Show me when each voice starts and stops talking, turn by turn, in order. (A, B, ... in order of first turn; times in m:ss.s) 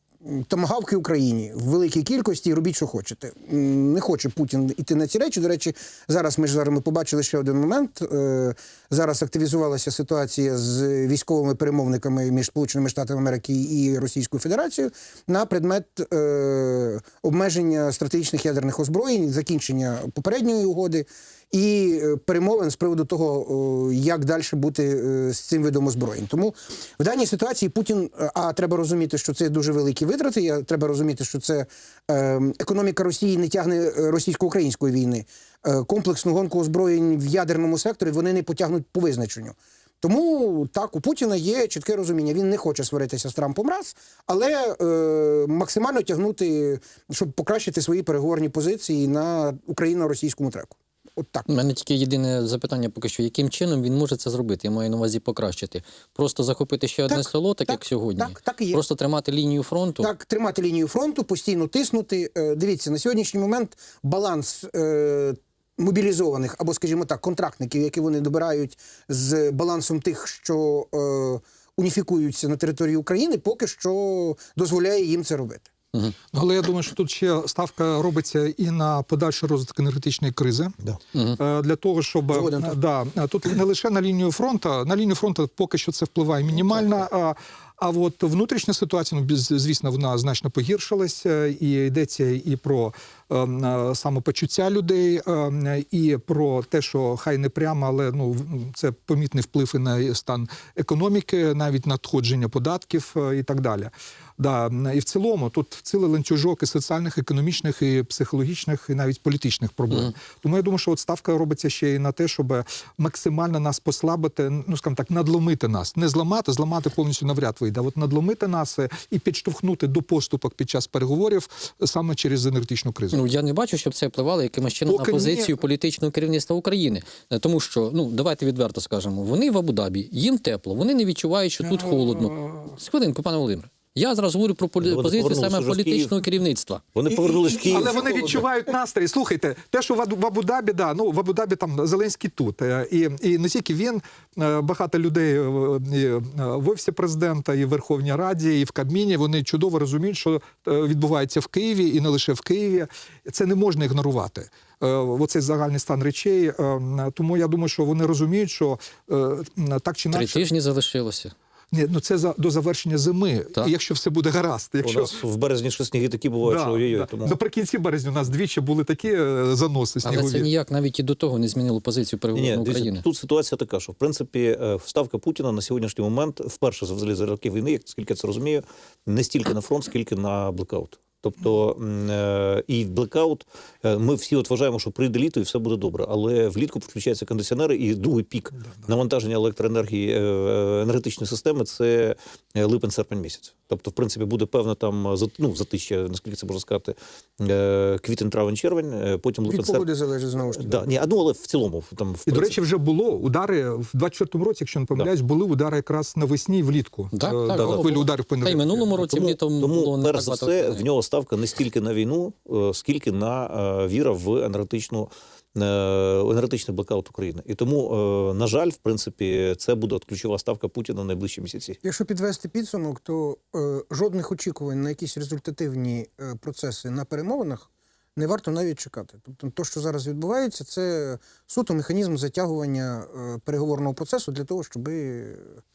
0:00.2-0:51.5 A
0:51.5-1:00.1 B
0:57.1-0:58.8 A
1:00.0-1:15.7 A
1:16.3-1:20.8 C
1:21.4-2:03.2 C
1:22.3-1:22.8 A
2:03.1-2:16.8 B
2:04.9-2:05.5 C
2:14.8-2:16.1 D
2:17.0-2:18.4 D
2:17.7-2:40.4 C
2:40.1-2:41.3 B
2:41.7-2:45.2 C
2:44.8-2:47.4 D
2:46.5-2:50.5 C
2:50.0-2:53.0 B
2:52.3-3:19.9 D
3:19.5-3:20.8 A
3:20.5-3:22.6 D
3:22.3-3:28.9 C
3:27.1-3:30.8 B
3:27.6-3:27.9 D
3:29.0-3:41.8 D
3:41.8-3:55.6 A